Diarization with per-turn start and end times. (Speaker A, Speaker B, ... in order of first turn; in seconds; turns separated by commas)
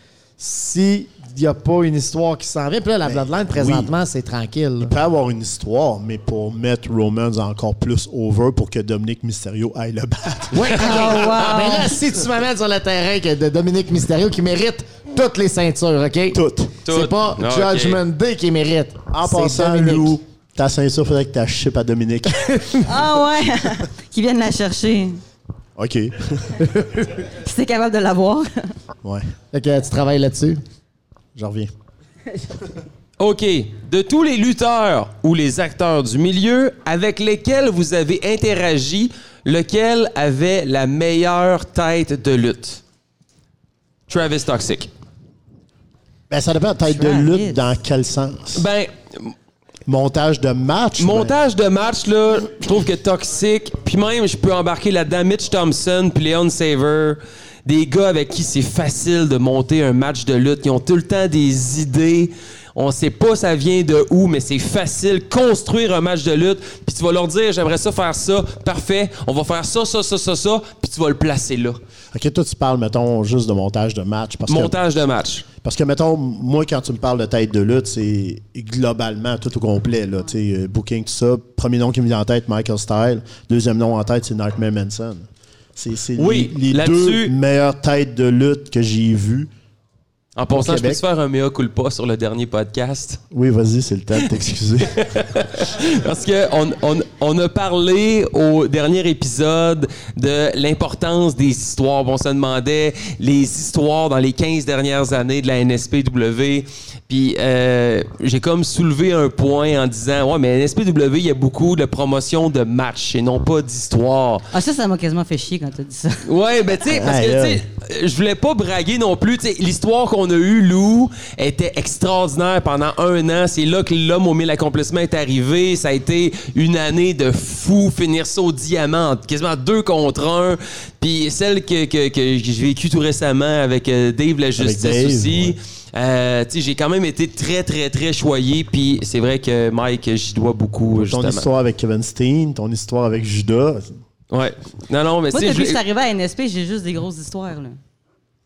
Speaker A: 0.4-4.9, Speaker B: 3.0-3.9, Speaker B: 4.8-11.4, Speaker A: 10.5-20.1, Speaker C: 10.8-12.0, Speaker B: 16.3-16.8, Speaker D: 16.9-18.0, Speaker B: 19.1-23.0, Speaker C: 22.9-25.2, Speaker B: 25.8-27.2, Speaker C: 27.2-28.5, Speaker B: 29.0-29.3, Speaker A: 29.5-30.6, Speaker B: 31.4-31.7, Speaker D: 33.2-42.8, Speaker D: 44.1-44.9, Speaker B: 46.3-48.7, Speaker C: 46.9-47.6, Speaker D: 48.5-49.4, Speaker B: 49.9-51.4, Speaker D: 51.0-71.8, Speaker B: 72.1-74.8, Speaker D: 74.5-75.5, Speaker B: 75.6-89.5, Speaker D: 86.2-87.3, Speaker D: 90.4-93.2, Speaker B: 90.5-91.0, Speaker B: 93.3-95.2, Speaker D: 94.9-114.5, Speaker C: 114.5-116.2, Speaker D: 116.2-141.5, Speaker B: 116.9-117.6, Speaker B: 134.6-135.6, Speaker B: 140.9-144.0, Speaker D: 144.3-145.8, Speaker C: 145.3-147.8